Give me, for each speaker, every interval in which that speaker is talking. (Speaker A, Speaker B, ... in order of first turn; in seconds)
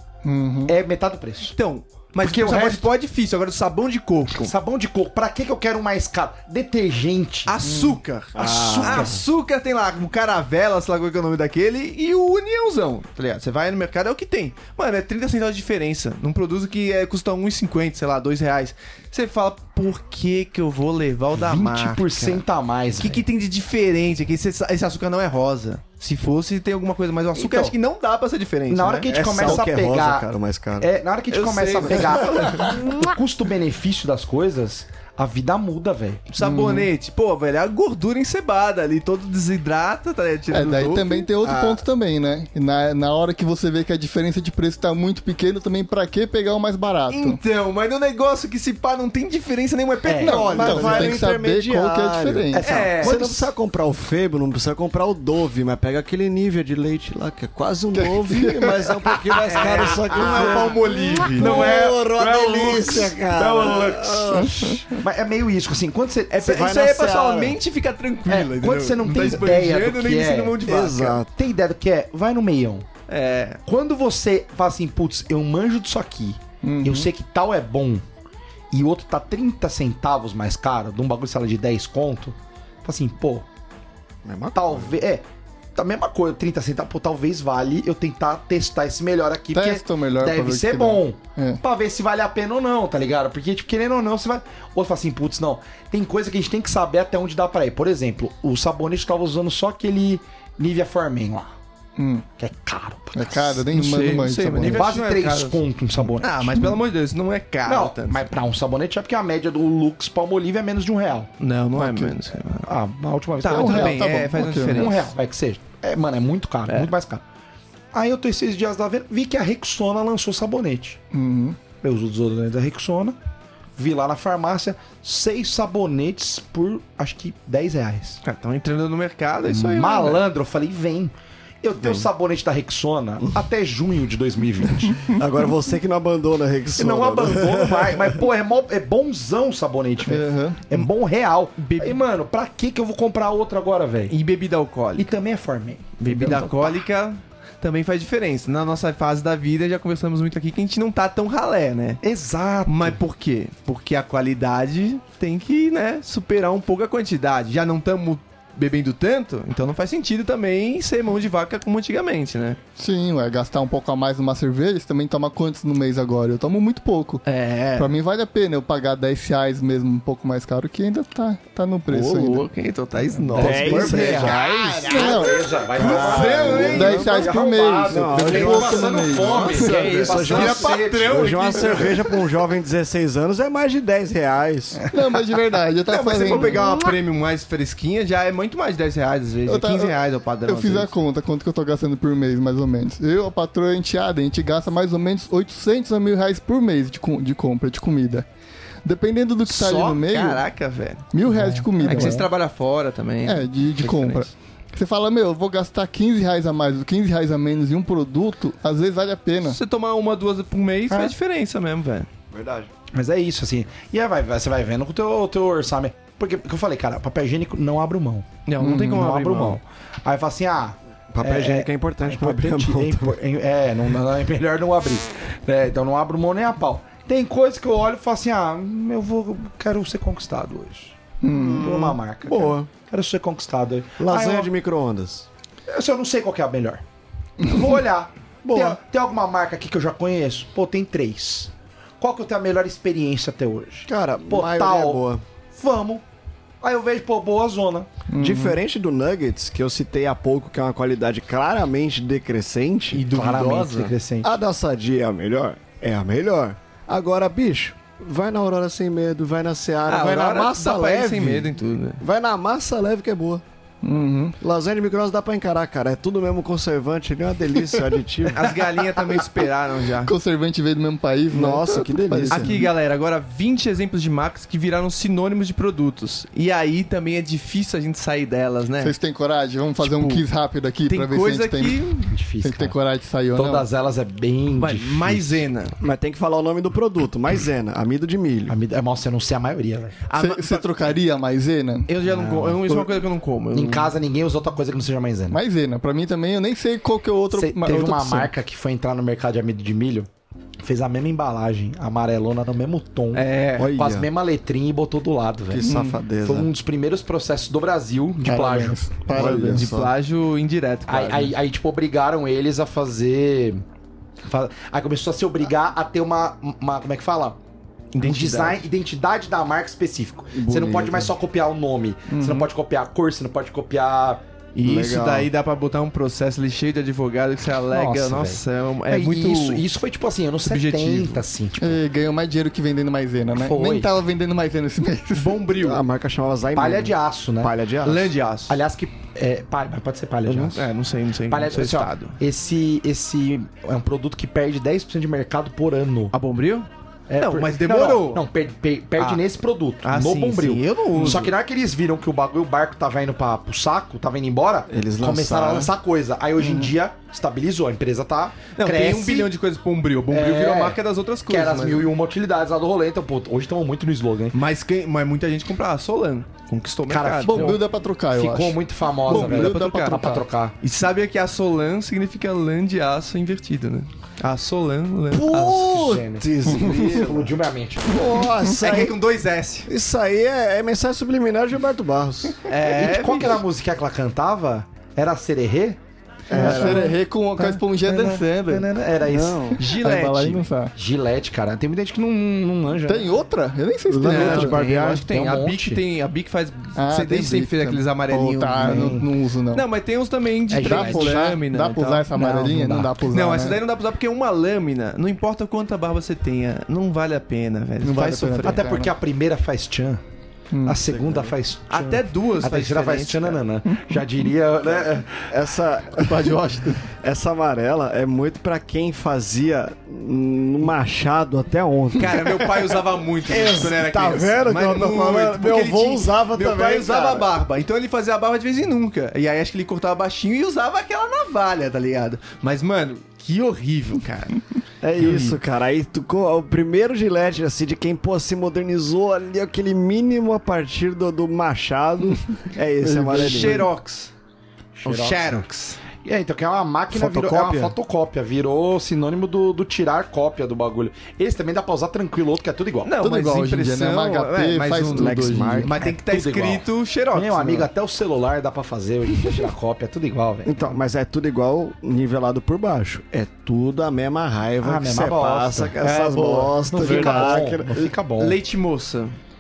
Speaker A: 0.2-0.8, 7.6-8.0, 36.4-36.9, 40.5-47.4, 50.2-52.6, 58.0-58.8, 64.5-64.8, 76.6-77.1, 89.5-91.6, 102.0-102.2, 103.1-104.8, 111.8-112.2, 113.5-114.9, 121.1-121.6, 140.1-140.6, 162.8-167.2, 167.8-172.4, 174.9-175.3, 176.5-180.0, 184.9-186.8, 189.4-189.9, 190.5-198.2, 198.8-200.4, 201.1-202.3, 203.2-209.6, 218.6-219.1, 231.2-231.7, 248.1-248.6, 263.8-264.4, 270.0-272.7, 278.8-281.8, 282.4-283.6, 290.1-291.9, 295.3-298.3, 305.6-306.0, 308.2-309.7, 322.1-322.5, 331.6-335.4, 356.4-356.7, 367.3-370.2, 386.3-390.7, 392.9-394.6, 396.8-399.6, 400.6-403.6, 407.8-408.9, 410.5-410.8, 416.0-416.8, 442.9-443.6, 453.0-455.8, 466.9-467.3
Speaker B: 0.7-1.5, 2.2-2.9, 4.4-7.5, 8.4-9.2, 21.4-23.2, 27.3-27.7, 28.7-36.2, 50.0-51.0, 52.5-53.5, 59.6-60.7, 61.3-66.8, 68.3-70.6, 71.3-72.9, 73.7-78.0, 78.7-83.5, 84.5-85.2, 85.8-101.5, 102.4-103.6, 104.6-106.7, 107.7-111.3, 112.6-117.2, 117.9-121.0, 121.8-123.2, 123.8-128.2, 129.5-135.1, 136.8-144.1, 145.0-146.8, 152.0-153.0, 173.3-181.9, 201.3-202.2, 212.9-218.2, 218.9-234.5, 235.7-236.8, 237.4-246.0, 246.6-247.9, 253.1-254.3, 282.1-282.8, 283.3-285.4, 288.5-290.0, 292.1-292.6, 293.5-295.4, 297.3-300.1, 300.6-305.7, 306.2-308.9, 310.9-313.6, 314.2-317.4, 318.0-324.2, 327.7-331.8, 333.3-333.9, 336.5-337.5, 338.5-340.6, 341.3-346.1, 347.1-359.3, 360.1-364.4, 366.9-370.5, 375.4-377.9, 382.6-385.8, 386.3-389.6, 390.8-393.1, 395.1-395.8, 398.6-399.1, 400.5-401.1, 402.1-402.9, 408.4-410.0, 410.6-415.3, 444.8-445.4, 446.0-452.9, 455.8-460.7, 464.6-468.4
Speaker C: 1.5-4.5, 7.5-22.0, 23.0-29.6, 31.3-32.9, 36.3-41.3, 47.1-51.2, 52.6-53.2, 59.4-61.7, 66.4-71.2, 73.1-73.6, 103.7-105.6, 106.2-108.3, 111.4-112.7, 113.4-115.1, 128.2-130.2, 141.6-142.0, 144.1-145.1, 146.0-152.0, 152.7-162.6, 167.2-167.9, 171.9-175.2, 175.7-177.3, 178.3-178.6, 179.2-182.1, 185.9-190.9, 199.5-201.1, 201.8-204.3, 209.4-212.1, 218.4-219.6, 252.9-253.9, 259.9-262.0, 268.3-270.1, 272.3-278.9, 279.8-280.2, 280.9-282.1, 284.5-285.7, 290.1-290.9, 291.9-293.9, 303.1-303.7, 309.1-311.3, 317.9-318.6, 324.5-329.6, 330.4-331.2, 335.1-335.8, 337.8-338.5, 340.2-342.2, 346.1-348.2, 349.8-351.3, 358.6-361.9, 364.3-367.6, 369.1-370.0, 370.6-375.7, 378.6-379.7, 382.4-383.4, 386.5-386.9, 389.6-390.4, 394.0-399.0, 399.5-402.1, 403.1-408.6, 411.7-413.4, 422.0-434.4, 435.0-435.4, 442.9-444.1, 444.8-445.8, 452.8-457.7, 468.2-469.1
Speaker D: 8.3-9.2, 29.1-30.9, 41.4-41.8, 50.2-64.8, 66.4-67.6, 70.6-71.3, 84.2-84.9, 131.8-132.1, 135.1-138.2, 173.3-175.2, 175.8-177.3, 177.9-184.8, 212.3-212.7, 221.1-223.2, 231.3-232.7, 234.0-235.3, 238.4-238.8, 243.9-245.2, 248.2-253.0, 254.2-263.4, 264.4-268.5, 271.3-272.5, 285.8-288.5, 303.6-304.1, 305.5-306.5, 309.1-309.9, 320.3-321.1, 324.6-325.3, 335.6-338.1, 354.7-355.7, 375.1-377.3, 377.9-378.9, 379.7-382.4, 386.3-386.9, 389.1-389.6, 393.9-395.1, 410.8-411.3, 415.3-422.6, 423.2-427.3, 434.8-443.7, 446.9-447.8, 454.7-455.7, 460.4-467.8